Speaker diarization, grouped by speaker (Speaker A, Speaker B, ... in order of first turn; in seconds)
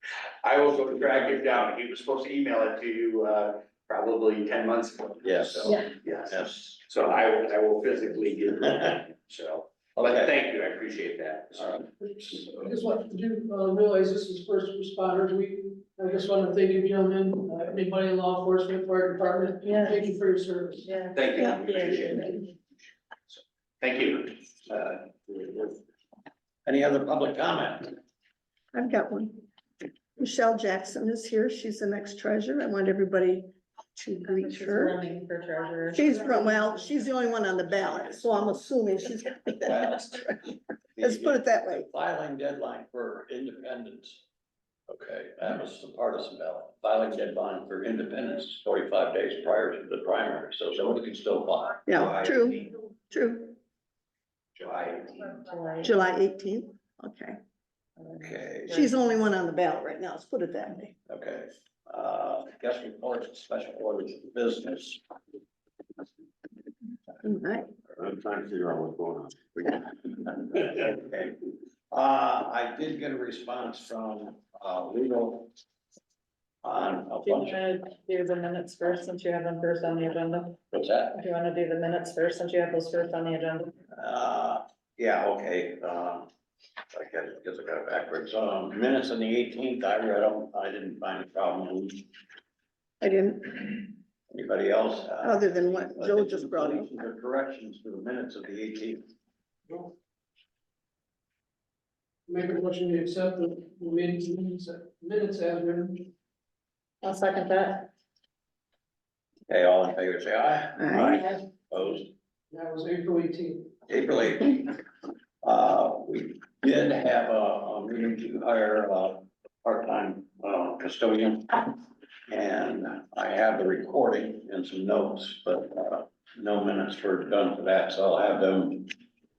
Speaker A: 0.4-11.8, 21.1-22.5, 23.8-24.7, 25.3-25.6, 51.9-52.7, 54.5-55.5
Speaker B: 5.2-6.8, 9.9-10.4, 11.5-12.5, 24.7-25.0, 26.6-27.9, 39.6-40.2, 41.0-44.2, 44.9-51.9, 58.2-58.8, 61.1-65.0, 67.9-71.4, 71.9-75.5, 76.6-77.6, 80.7-81.2, 83.9-86.3, 86.9-92.0, 94.3-99.0, 109.5-112.1, 113.9-114.8, 115.4-121.7, 122.3-128.9
Speaker C: 12.5-20.9, 102.3-106.1, 112.5-113.7
Speaker D: 19.6-20.1, 20.8-22.5, 34.3-36.5, 55.4-56.0, 58.0-58.8, 77.2-80.6, 81.1-83.8, 107.0-107.9
Speaker E: 28.7-29.4, 30.2-35.0, 35.9-41.9, 51.9-53.5, 55.8-57.4, 58.7-60.9, 67.2-67.7, 93.0-93.9, 95.2-96.9, 110.8-111.2